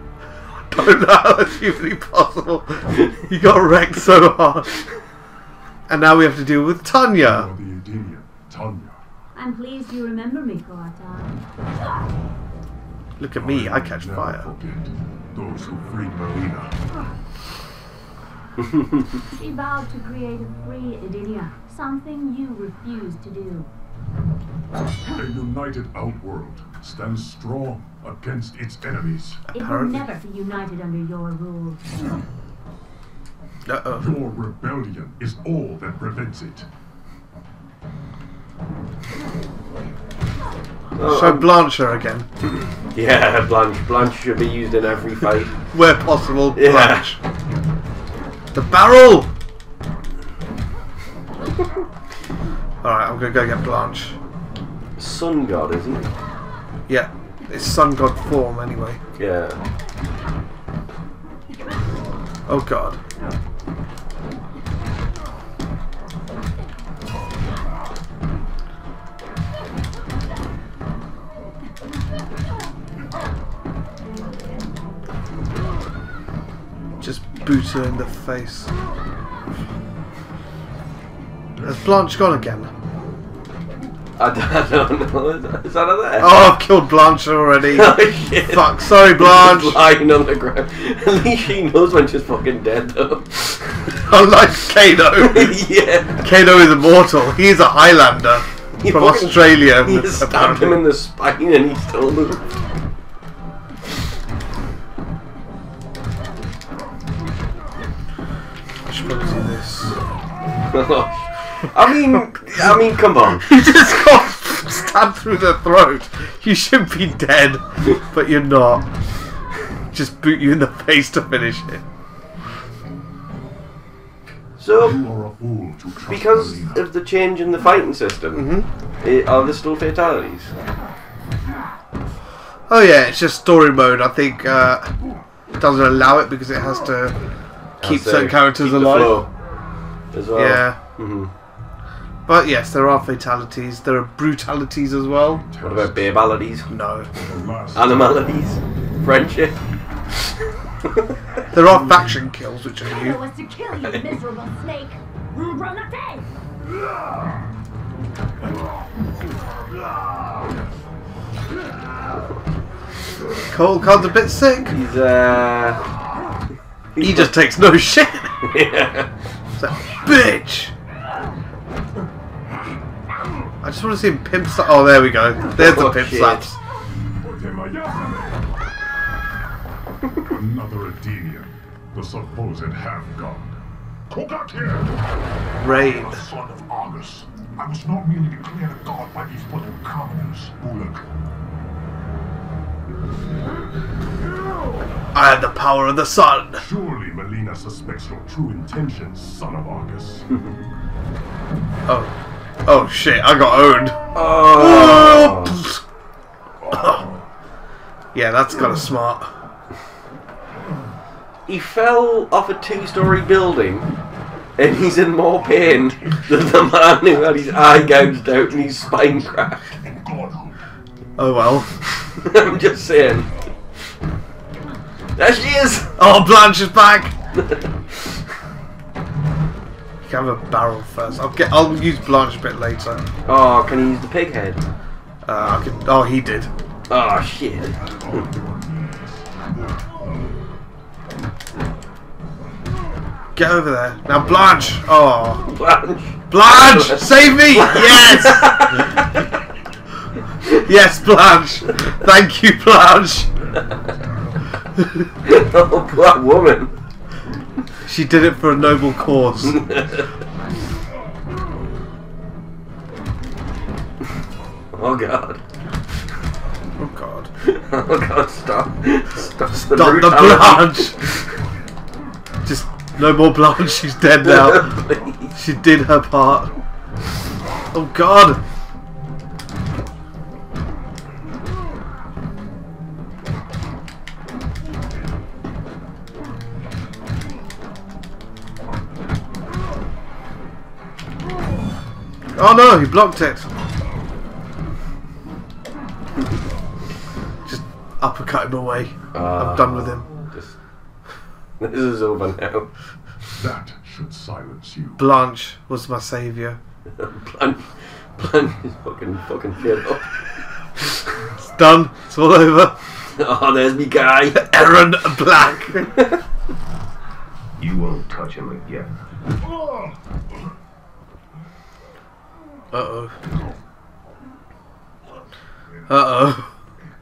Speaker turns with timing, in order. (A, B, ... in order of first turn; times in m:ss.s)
0:00.7-0:04.7 A
0:05.9-0:07.5 A
0:07.2-0:09.0 B
0:09.3-0:11.3 C
0:13.2-0:14.5 A
0:13.3-0:16.7 B
0:19.3-0:23.7 C
0:25.1-0:29.5 B
0:29.5-0:30.1 A
0:29.5-0:31.9 C
0:33.6-0:34.1 A
0:34.0-0:36.7 B
0:41.0-0:41.6 D
0:41.0-0:42.2 A
0:42.9-0:45.5 D
0:45.7-0:47.2 A
0:46.5-0:47.1 D
0:48.5-0:49.3 A
0:52.8-0:54.2 A
0:55.0-0:56.1 D
0:56.9-0:59.0 A
0:59.2-0:59.6 D
1:02.5-1:03.0 A
1:17.0-1:18.7 A
1:21.6-1:22.7 A
1:24.2-1:26.5 D
1:26.2-1:29.8 A
1:27.7-1:33.9 D
1:33.9-1:35.6 A
1:35.2-1:36.3 D
1:36.2-1:40.8 A
1:38.8-1:42.5 D
1:48.8-1:50.0 A
1:50.6-1:53.5 D
1:53.4-1:58.9 A
1:59.9-2:01.8 A
2:04.6-2:05.0 D
2:04.8-2:06.9 B
2:06.0-2:08.4 D
2:08.3-2:08.7 A
2:09.0-2:10.5 D
2:12.7-2:14.9 A
2:15.6-2:17.2 A
2:17.8-2:19.3 D
2:17.8-2:19.2 A
2:20.1-2:21.3 D
2:20.3-2:20.8 A
2:22.3-2:25.4 A
2:25.2-2:26.4 B
2:25.6-2:26.7 D
2:26.7-2:27.1 A
2:27.2-2:28.4 B
2:27.7-2:29.6 D
2:31.5-2:33.2 A
2:32.8-2:36.2 C
2:43.5-2:44.8 A
2:44.7-2:45.8 D
2:47.0-2:47.3 D
2:47.0-2:48.4 A
2:48.4-2:49.1 D
2:49.6-2:50.7 A
2:53.6-2:56.6 A
2:55.4-2:56.5 D
2:57.2-2:58.4 B
3:00.3-3:03.5 B
3:04.1-3:04.9 B
3:05.6-3:06.3 A
3:05.7-3:11.0 B
3:15.1-3:16.6 A
3:16.6-3:20.2 B
3:21.9-3:22.1 A
3:22.6-3:25.8 A
3:24.1-3:25.6 D
3:26.6-3:27.2 B
3:26.7-3:27.0 A
3:28.1-3:29.3 A
3:31.5-3:33.9 D
3:34.6-3:39.8 D
3:39.9-3:40.5 B
3:41.2-3:41.7 A
3:42.0-3:43.3 D
3:45.2-3:45.9 D
3:46.0-3:47.1 A
3:47.4-3:47.7 D
3:50.0-3:53.0 A
3:53.2-3:54.6 D
3:55.2-3:56.5 A
3:56.9-3:57.8 D
3:58.0-3:59.3 B
4:03.3-4:05.5 A
4:05.5-4:09.2 D
4:06.3-4:09.0 A
4:10.6-4:13.3 A
4:15.2-4:16.7 D
4:17.8-4:19.6 A
4:19.4-4:20.1 D
4:24.7-4:25.4 D
4:26.8-4:27.3 A
4:27.4-4:31.2 D
4:29.5-4:31.0 A
4:32.4-4:34.7 A
4:34.2-4:35.3 D
4:35.3-4:36.5 A
4:37.7-4:38.4 A
4:52.4-4:53.5 A
4:57.4-5:00.0 A
4:59.1-5:00.5 D
5:01.6-5:02.7 D
5:03.4-5:05.1 B
5:05.0-5:06.6 A
5:07.0-5:10.1 D
5:11.3-5:12.8 A
5:13.1-5:14.4 D
5:14.3-5:15.9 A
5:17.6-5:18.9 B
5:22.7-5:23.1 A
5:25.9-5:26.5 A